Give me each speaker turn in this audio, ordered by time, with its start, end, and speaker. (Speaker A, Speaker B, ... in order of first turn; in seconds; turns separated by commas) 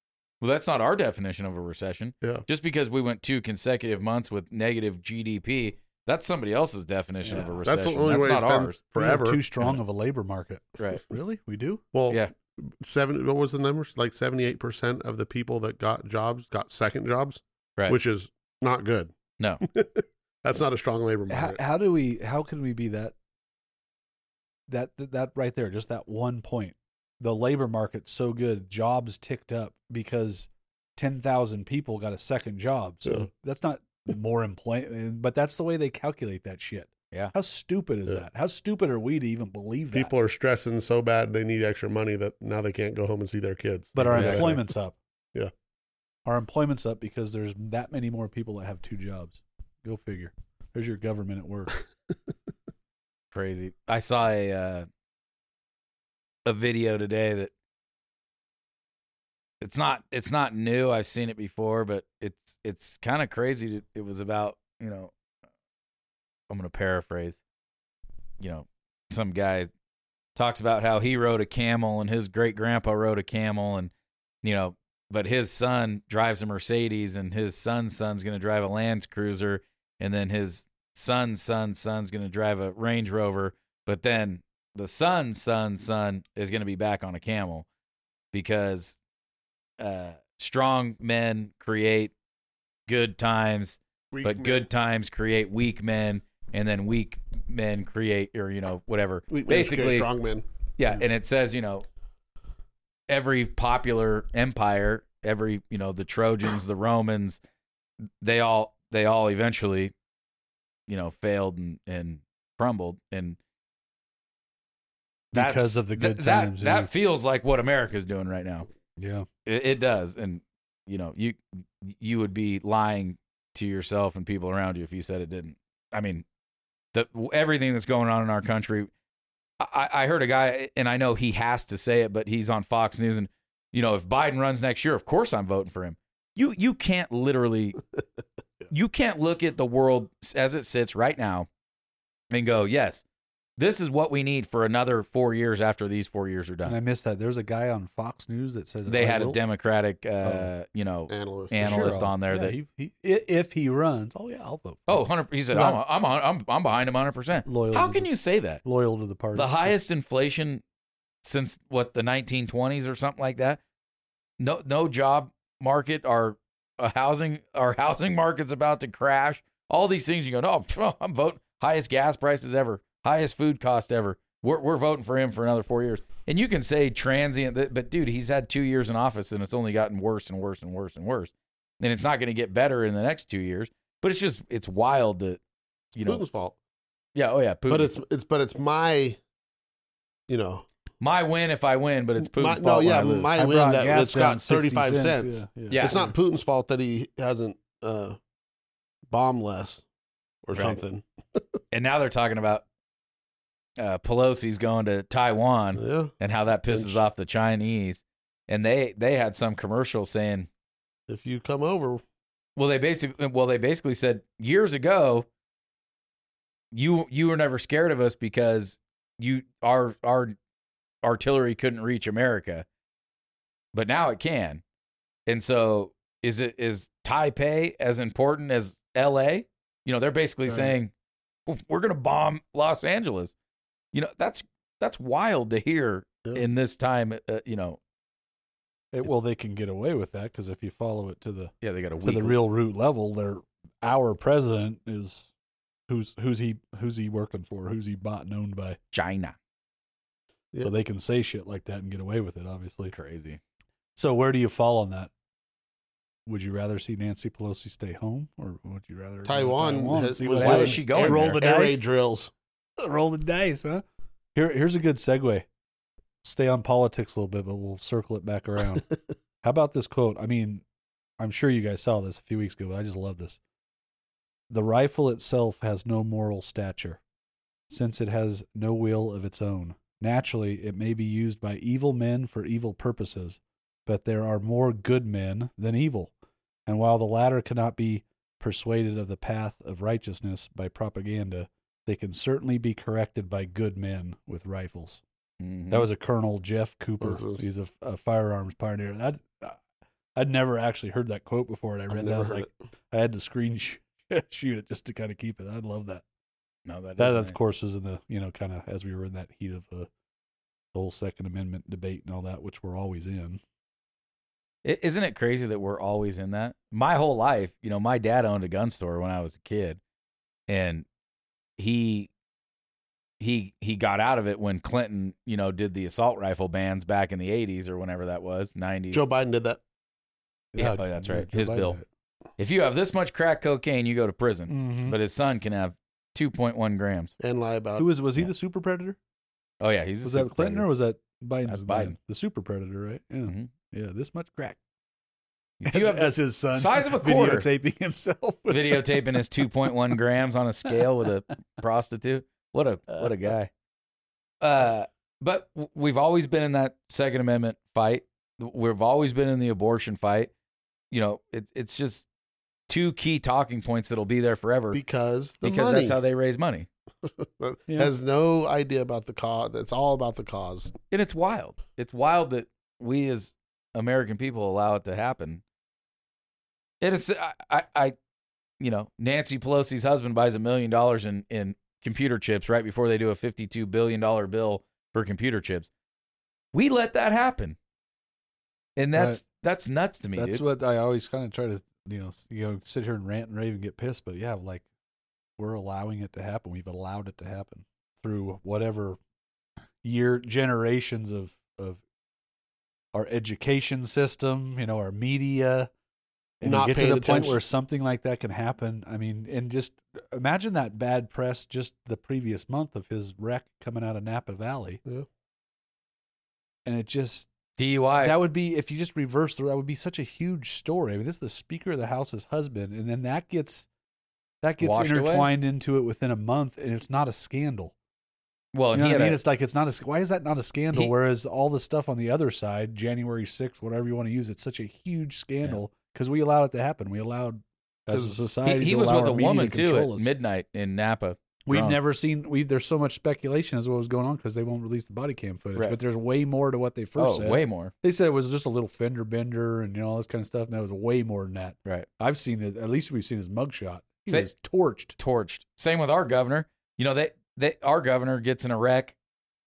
Speaker A: 0.4-8.8, Speaker B: 7.2-7.6, Speaker C: 7.6-9.4, Speaker B: 8.9-11.8, Speaker C: 11.9-19.1, Speaker C: 19.6-21.6, Speaker B: 21.3-23.1, Speaker B: 24.7-40.1, Speaker C: 39.9-44.6, Speaker B: 43.9-45.0, Speaker A: 44.1-44.4, Speaker B: 46.2-51.7, Speaker A: 53.3-54.9, Speaker A: 56.4-57.5, Speaker A: 59.6-65.1, Speaker A: 66.5-67.4, Speaker A: 68.4-69.7, Speaker A: 70.3-73.9, Speaker A: 74.4-87.7, Speaker A: 88.3-89.0, Speaker A: 89.8-92.1, Speaker A: 92.9-100.1, Speaker C: 94.1-94.6, Speaker C: 99.3-100.4, Speaker A: 100.8-101.8, Speaker A: 103.1-107.4, Speaker A: 108.2-109.9, Speaker A: 110.9-113.4, Speaker B: 115.3-116.9, Speaker A: 115.3-118.7, Speaker B: 119.0-119.3, Speaker A: 119.5-126.2, Speaker A: 126.9-128.9, Speaker A: 129.6-137.8, Speaker A: 138.7-141.5, Speaker A: 142.3-143.0, Speaker A: 143.6-146.8, Speaker B: 146.6-149.4, Speaker A: 148.9-152.5, Speaker B: 150.2-150.5, Speaker C: 151.1-152.0, Speaker B: 151.6-155.8, Speaker A: 154.9-158.6, Speaker B: 157.4-158.1, Speaker B: 158.6-159.8, Speaker A: 159.3-160.6, Speaker A: 161.2-163.6, Speaker A: 164.4-185.4, Speaker A: 185.9-186.2, Speaker C: 186.0-186.6, Speaker A: 187.1-187.9, Speaker C: 187.7-189.2, Speaker C: 190.3-190.7, Speaker A: 191.0-193.3, Speaker C: 192.2-198.2, Speaker B: 193.0-196.0, Speaker A: 195.7-196.1, Speaker C: 199.1-199.8, Speaker C: 200.4-201.4, Speaker A: 201.7-202.6, Speaker A: 203.8-210.5, Speaker C: 205.8-206.1, Speaker C: 206.7-207.0, Speaker C: 211.1-212.0, Speaker A: 212.6-215.3, Speaker A: 216.7-220.4, Speaker A: 221.0-222.7, Speaker A: 223.7-224.6, Speaker A: 225.3-230.9, Speaker A: 231.5-233.3, Speaker A: 233.9-237.8, Speaker B: 238.9-245.3, Speaker A: 241.6-242.4, Speaker B: 245.9-248.8, Speaker A: 248.9-249.3, Speaker B: 250.6-252.9, Speaker A: 252.9-253.4, Speaker B: 253.9-255.1, Speaker B: 256.2-261.8, Speaker C: 259.2-262.3, Speaker A: 260.4-261.4, Speaker B: 262.8-263.8, Speaker B: 264.3-265.4, Speaker B: 266.2-268.8, Speaker B: 269.4-270.6, Speaker B: 271.2-273.4, Speaker B: 274.5-277.0, Speaker B: 277.7-286.1, Speaker B: 286.6-295.0, Speaker A: 295.4-295.9, Speaker B: 295.7-299.6, Speaker C: 297.0-297.4, Speaker B: 300.1-306.0, Speaker C: 301.9-302.5, Speaker A: 306.6-307.4, Speaker B: 307.0-309.9, Speaker B: 310.7-313.4, Speaker A: 314.6-319.8, Speaker A: 320.5-320.9, Speaker A: 321.6-322.1, Speaker A: 323.2-329.0, Speaker C: 328.9-329.6, Speaker B: 330.5-331.9, Speaker A: 330.6-331.8, Speaker A: 332.4-337.1, Speaker B: 334.5-335.0, Speaker C: 337.2-337.9, Speaker B: 337.8-339.0, Speaker A: 339.6-340.7, Speaker B: 340.0-344.6, Speaker A: 341.5-341.9, Speaker A: 343.2-343.5, Speaker A: 345.6-347.5, Speaker B: 345.6-349.7, Speaker A: 348.5-353.5, Speaker A: 354.4-360.3, Speaker A: 360.9-362.1, Speaker A: 362.7-364.8, Speaker C: 364.7-366.0, Speaker A: 365.4-366.7, Speaker C: 367.2-370.7, Speaker A: 370.9-375.4, Speaker A: 376.8-377.9, Speaker A: 378.6-385.7, Speaker A: 386.5-387.6, Speaker A: 388.8-390.4, Speaker B: 388.9-389.2, Speaker B: 390.2-394.6, Speaker B: 395.4-399.0, Speaker B: 399.8-401.8, Speaker B: 402.9-405.7, Speaker B: 406.4-414.8, Speaker C: 406.4-407.4, Speaker B: 416.6-417.3, Speaker A: 417.6-418.2, Speaker B: 418.0-423.7, Speaker B: 424.4-427.7, Speaker A: 424.6-425.3, Speaker A: 428.5-429.2, Speaker B: 428.7-440.1, Speaker C: 437.9-438.3, Speaker A: 438.4-441.8, Speaker B: 441.4-454.9, Speaker A: 447.0-447.7, Speaker A: 455.0-458.9